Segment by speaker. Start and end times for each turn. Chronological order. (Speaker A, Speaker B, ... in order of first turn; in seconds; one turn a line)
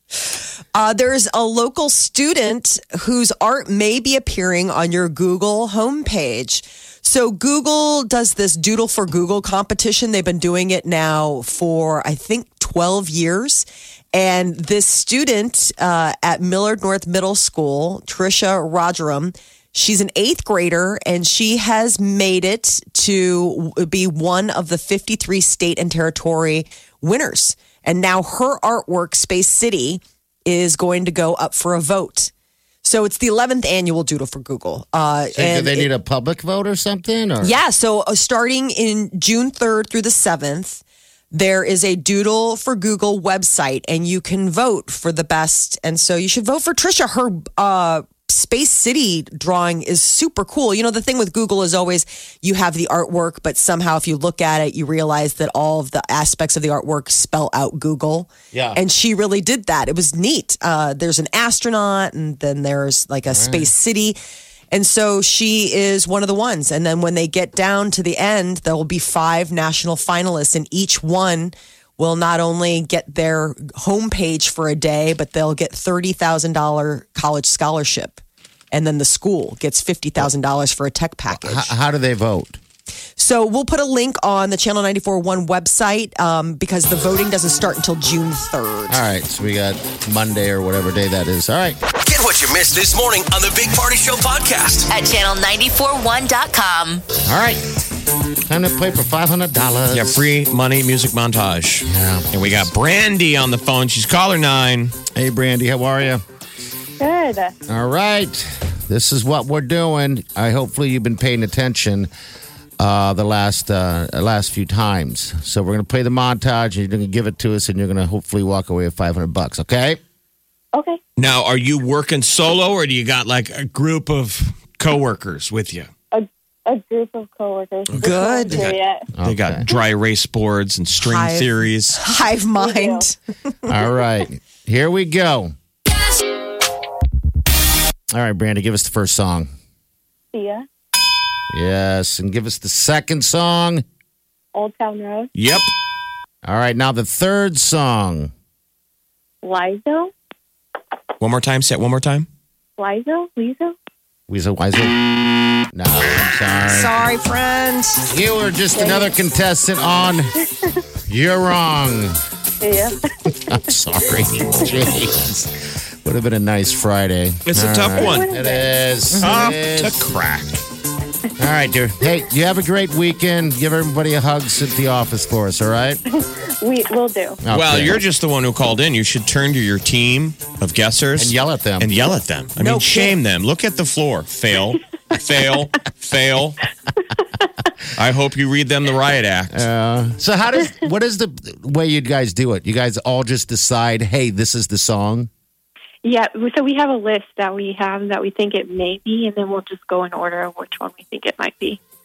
Speaker A: 0.2-32.3
Speaker A: 32.8-35.9
Speaker B: 35.3-37.6
Speaker A: 37.4-64.2
Speaker B: 58.5-58.8
Speaker B: 63.3-63.7
Speaker A: 64.7-78.2
Speaker A: 78.7-81.7
Speaker B: 81.3-82.6
Speaker A: 83.2-89.0
Speaker B: 88.9-91.8
Speaker C: 91.9-94.9
Speaker D: 94.9-97.0
Speaker B: 97.2-97.6
Speaker B: 98.5-100.3
Speaker E: 99.9-104.9
Speaker B: 101.8-102.7
Speaker B: 105.1-106.2
Speaker F: 107.0-107.5
Speaker B: 107.7-112.1
Speaker B: 112.8-120.0
Speaker F: 120.7-121.0
Speaker E: 121.2-125.9
Speaker F: 126.1-129.1
Speaker A: 128.0-128.7
Speaker E: 128.0-132.0
Speaker B: 129.2-129.6
Speaker A: 131.0-133.2
Speaker F: 132.6-133.0
Speaker B: 133.7-135.5
Speaker B: 138.1-139.5
Speaker F: 140.3-140.7
Speaker B: 141.5-143.8
Speaker F: 144.5-145.3
Speaker E: 145.3-145.7
Speaker B: 146.4-148.3
Speaker F: 149.4-150.1
Speaker E: 151.2-152.3
Speaker F: 152.8-153.7
Speaker B: 154.3-155.1
Speaker B: 155.7-157.1
Speaker A: 156.7-158.0
Speaker B: 158.1-160.3
Speaker F: 158.7-159.1
Speaker B: 161.1-162.2
Speaker F: 162.6-163.0
Speaker B: 163.5-170.1
Speaker E: 167.4-168.3
Speaker F: 167.9-168.7
Speaker E: 169.2-170.6
Speaker B: 171.4-176.0
Speaker F: 176.1-177.4
Speaker B: 177.4-178.0
Speaker E: 177.5-186.6
Speaker B: 181.2-182.0
Speaker A: 182.6-183.2
Speaker E: 187.9-189.7
Speaker B: 189.5-195.3
Speaker F: 196.0-201.8